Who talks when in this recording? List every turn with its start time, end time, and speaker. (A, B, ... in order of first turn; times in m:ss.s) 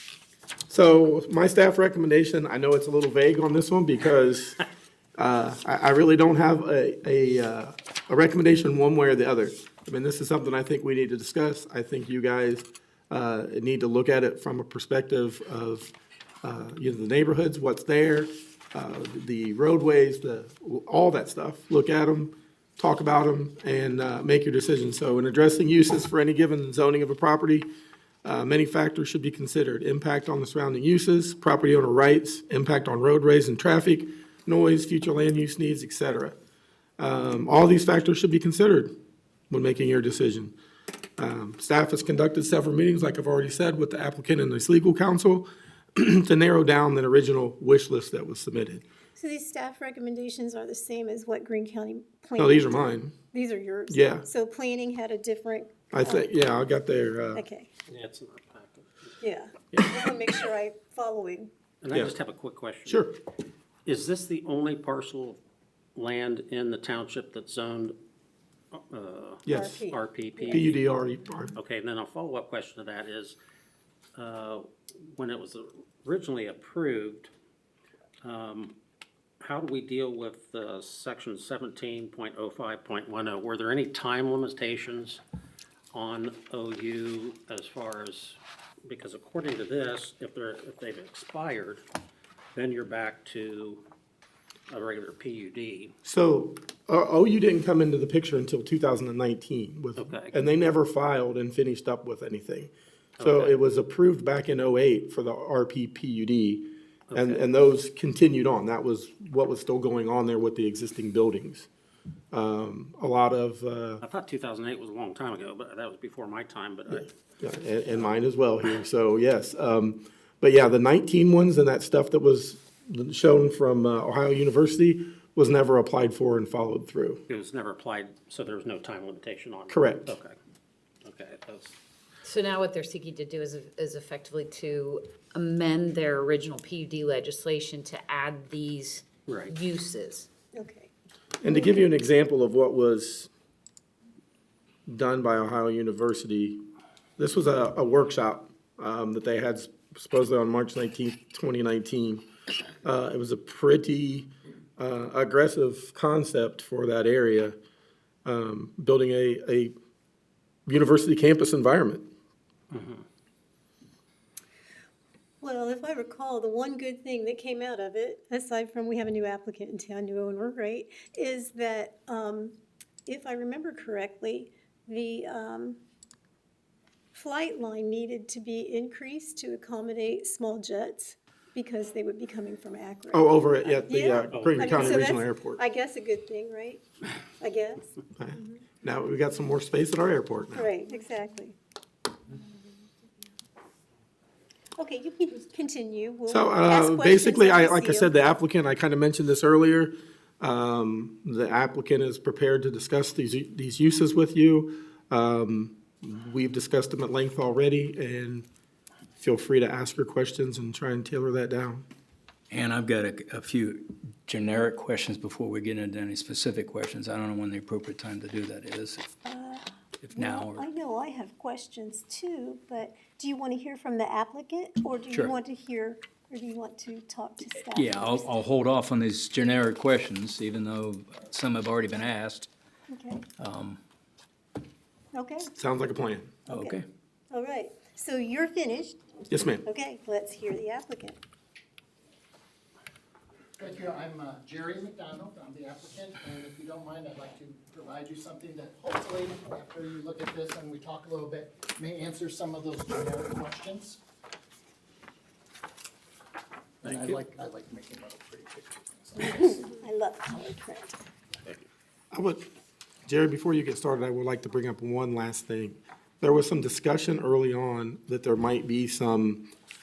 0:00.7-0:04.6 A
0:05.2-0:27.7 A
0:28.2-0:36.3 A
0:37.0-0:38.9 A
0:39.5-0:40.5 A
0:41.2-0:48.8 A
0:49.2-0:56.3 B
0:52.4-0:53.1 A
0:53.9-0:54.2 A
0:55.9-0:57.4 A
0:57.3-0:57.7 B
0:57.9-0:59.1 C
0:59.2-1:01.5 B
0:59.7-1:00.0 A
1:01.8-1:03.1 C
1:02.8-1:03.1 A
1:03.8-1:05.4 C
1:06.0-1:07.9 C
1:08.7-1:10.8 C
1:09.4-1:09.8 A
1:09.5-1:10.6 B
1:10.5-1:11.6 A
1:11.6-1:13.4 C
1:14.1-1:17.3 C
1:18.2-1:18.8 C
1:19.4-1:25.2 C
1:25.9-1:31.8 C
1:32.5-1:33.8 C
1:34.7-1:35.9 C
1:36.0-1:51.7 A
1:40.0-1:40.4 C
1:43.2-1:43.6 C
1:47.1-1:47.4 C
1:52.3-1:54.0 A
1:54.0-1:57.1 C
1:56.9-2:07.2 A
2:07.3-2:10.3 C
2:09.7-2:10.1 A
2:11.0-2:11.8 C
2:12.2-2:20.3 D
2:19.3-2:19.5 C
2:20.5-2:20.9 B
2:21.4-2:23.3 A
2:21.4-2:21.8 B
2:24.9-2:26.6 A
2:27.2-2:32.2 A
2:32.8-2:37.6 A
2:38.2-2:39.7 A
2:40.7-2:42.0 A
2:42.7-2:43.0 C
2:45.4-2:55.8 B
2:57.1-3:06.8 B
3:03.1-3:05.6 A
3:04.3-3:05.0 C
3:07.4-3:08.6 B
3:08.2-3:10.7 A
3:10.5-3:11.6 B
3:14.8-3:18.1 B
3:16.3-3:28.4 A
3:29.2-3:31.8 A
3:32.5-3:39.1 E
3:39.2-3:48.3 B
3:40.0-3:40.6 E
3:47.7-3:52.5 E
3:52.9-3:53.2 B
3:53.4-3:53.8 E
3:55.1-3:55.5 B
3:55.6-3:56.3 A
3:56.5-3:56.8 E
3:56.5-3:59.0 B
3:59.3-3:59.6 A
3:59.6-4:01.2 B
4:03.6-4:14.0 F
4:16.8-4:19.4 F
4:16.9-4:17.2 A
4:19.2-4:21.0 B
4:22.1-4:22.4 A
4:23.0-4:29.5 A